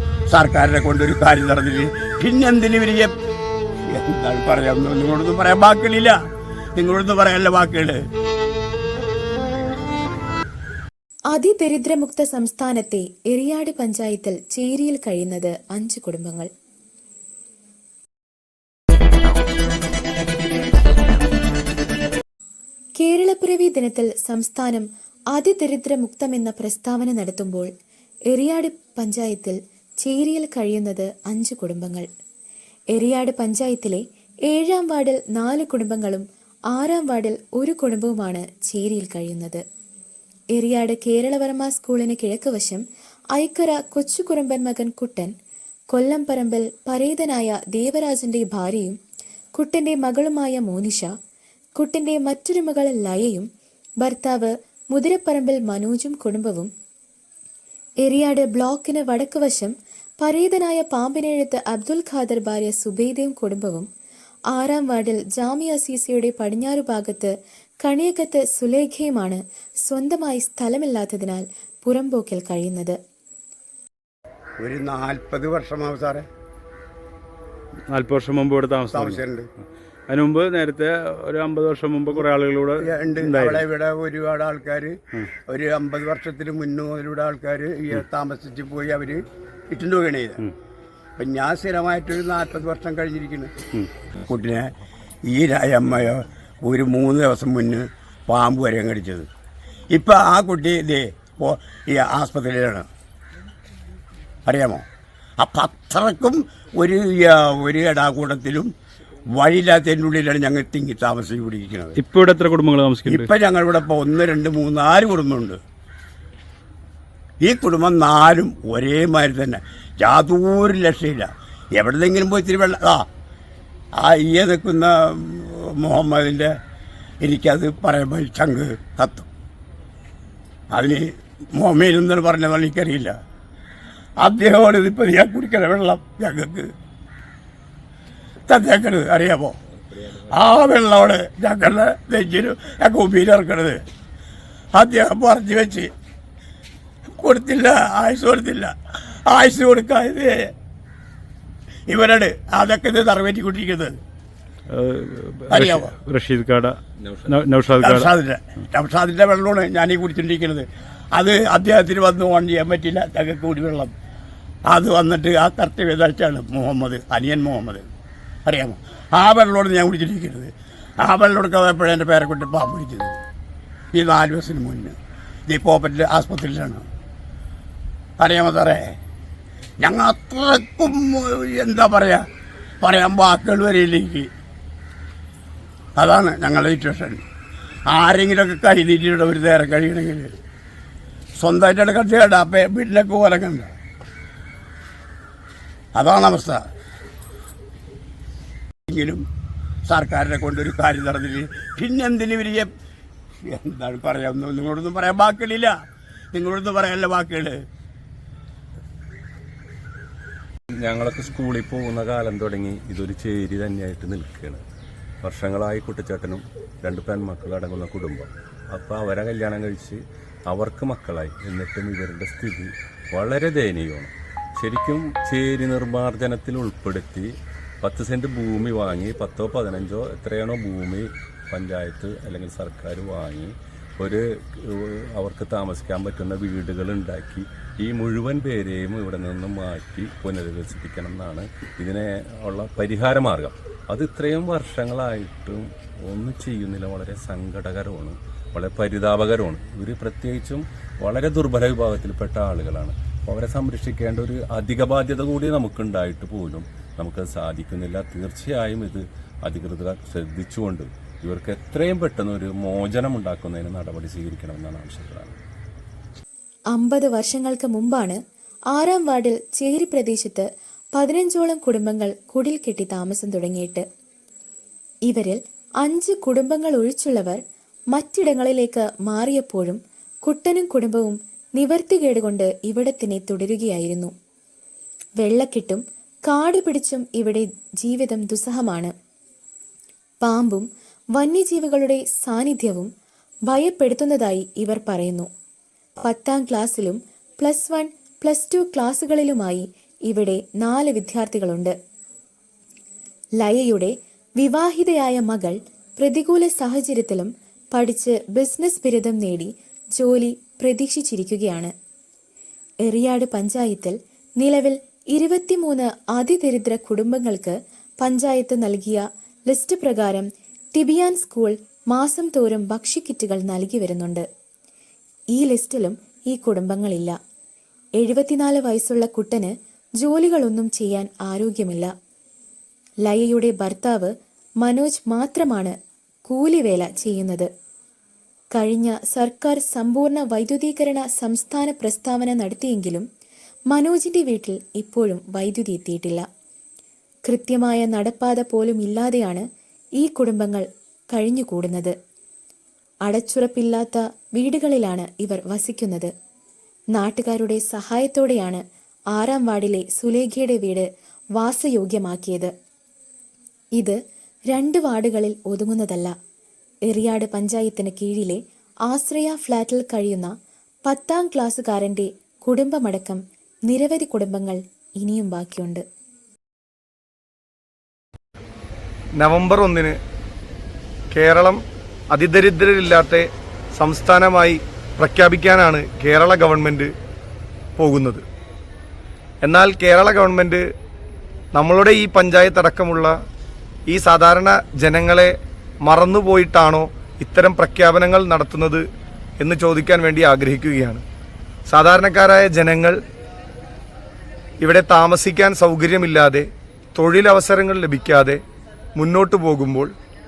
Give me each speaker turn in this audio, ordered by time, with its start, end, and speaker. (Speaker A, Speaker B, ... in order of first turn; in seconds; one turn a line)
Speaker A: 0.3-3.1
Speaker A: 3.9-6.2
Speaker A: 6.8-8.0
Speaker B: 11.3-16.5
Speaker B: 23.0-27.7
Speaker B: 28.3-32.0
Speaker B: 32.9-39.6
Speaker B: 40.5-42.8
Speaker B: 43.4-45.3
Speaker B: 45.9-49.0
Speaker B: 49.5-51.1
Speaker B: 51.8-53.5
Speaker B: 54.0-56.7
Speaker B: 58.0-63.9
Speaker B: 64.5-67.3
Speaker B: 67.8-73.0
Speaker A: 74.6-76.2
Speaker C: 77.9-79.2
Speaker A: 78.9-79.5
Speaker C: 80.1-83.6
Speaker A: 82.8-90.5
Speaker A: 91.2-93.6
Speaker A: 94.2-94.7
Speaker A: 95.3-99.3
Speaker A: 99.9-102.9
Speaker A: 104.4-104.8
Speaker A: 105.4-108.7
Speaker A: 109.3-112.0
Speaker C: 112.0-113.3
Speaker A: 113.0-115.6
Speaker A: 117.4-123.0
Speaker A: 124.0-126.5
Speaker A: 127.2-129.3
Speaker A: 130.7-133.2
Speaker A: 134.2-136.7
Speaker A: 138.5-143.8
Speaker A: 144.7-145.9
Speaker A: 147.2-148.7
Speaker A: 149.3-150.5
Speaker A: 151.9-153.9
Speaker C: 154.7-158.1
Speaker A: 155.5-155.9
Speaker D: 157.0-157.3
Speaker A: 157.8-163.9
Speaker A: 164.7-167.8
Speaker A: 168.4-173.2
Speaker A: 173.9-174.9
Speaker A: 175.5-176.8
Speaker A: 178.2-178.9
Speaker A: 179.8-182.2
Speaker A: 182.8-184.3
Speaker A: 186.0-187.2
Speaker A: 187.9-190.3
Speaker A: 191.4-193.7
Speaker A: 195.9-196.6
Speaker A: 198.9-199.2
Speaker A: 199.9-202.7
Speaker A: 203.4-205.7
Speaker A: 206.3-207.6
Speaker D: 210.8-214.6
Speaker D: 215.2-265.4
Speaker B: 266.7-268.2
Speaker B: 268.7-273.8
Speaker B: 275.1-277.4
Speaker B: 277.9-284.1
Speaker B: 285.2-288.9
Speaker B: 290.2-292.9
Speaker B: 293.5-295.3
Speaker B: 296.0-301.7
Speaker B: 303.4-311.7
Speaker B: 312.9-324.2
Speaker B: 325.3-327.2
Speaker B: 328.0-331.9
Speaker B: 333.1-334.1
Speaker B: 334.6-335.7
Speaker B: 336.3-337.5
Speaker B: 338.5-343.0
Speaker B: 343.7-346.2
Speaker B: 347.2-349.4
Speaker B: 350.0-351.9
Speaker B: 353.1-356.1
Speaker B: 356.9-358.6
Speaker B: 359.1-360.8
Speaker B: 361.4-362.5
Speaker B: 364.5-366.1
Speaker B: 366.9-370.3
Speaker B: 370.9-375.8
Speaker E: 379.2-380.0
Speaker E: 381.1-381.6
Speaker E: 382.1-386.9
Speaker E: 387.8-388.2
Speaker E: 389.4-390.6
Speaker E: 391.5-393.1
Speaker E: 393.9-398.8
Speaker E: 399.4-401.0
Speaker E: 401.7-403.0
Speaker E: 404.6-408.4
Speaker E: 408.9-409.9